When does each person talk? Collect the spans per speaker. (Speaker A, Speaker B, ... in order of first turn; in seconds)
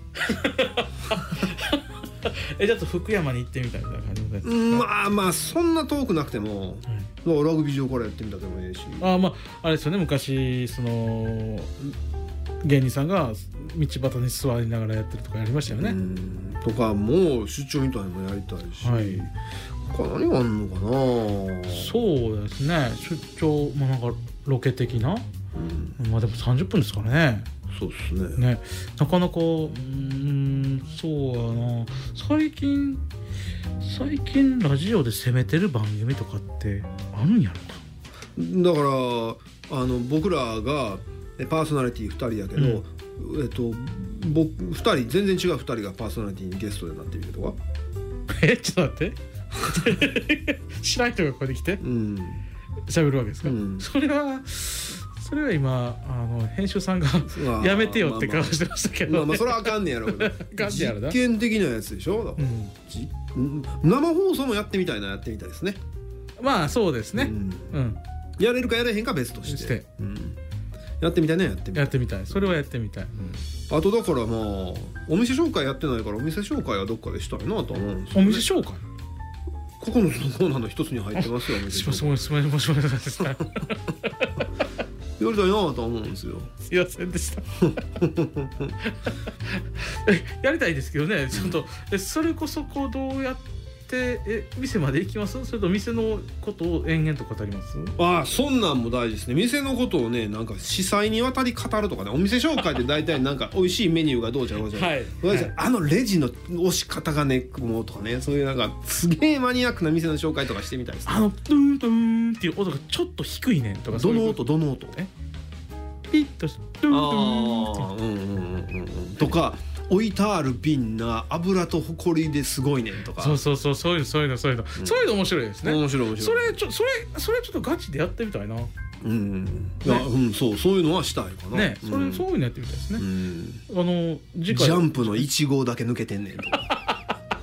Speaker A: 0.2-4.8, 9.0-11.9, 12.6-16.0, 18.8-19.2, 21.7-25.3, 26.0-27.5, 28.4-33.0, 33.8-37.8, 42.6-42.8, 48.3-51.8, 52.9-61.2, 62.4-62.7, 66.4-68.0, 69.5-69.8, 71.7-73.4, 78.1-78.8, 81.2-84.4, 86.6-87.7, 88.8-97.9, 104.7-105.5, 111.1-115.1, 116.1-117.9, 123.2-128.7, 131.5-133.1, 133.7-135.2, 136.6-137.0
Speaker B: 4.4-9.1, 15.7-19.3, 19.9-21.9, 25.5-26.0, 27.7-28.4, 38.4-47.6, 51.8-52.4, 53.4-53.9, 57.3-65.8, 67.2-67.8, 68.4-70.4, 71.0-72.0, 73.7-78.5, 79.8-82.2, 85.2-86.5, 87.6-88.7, 91.3-91.6, 98.0-111.2, 113.9-115.0, 116.9-123.4, 124.8-125.0, 125.6-126.5, 129.0-132.2, 133.0-133.6, 134.5-136.7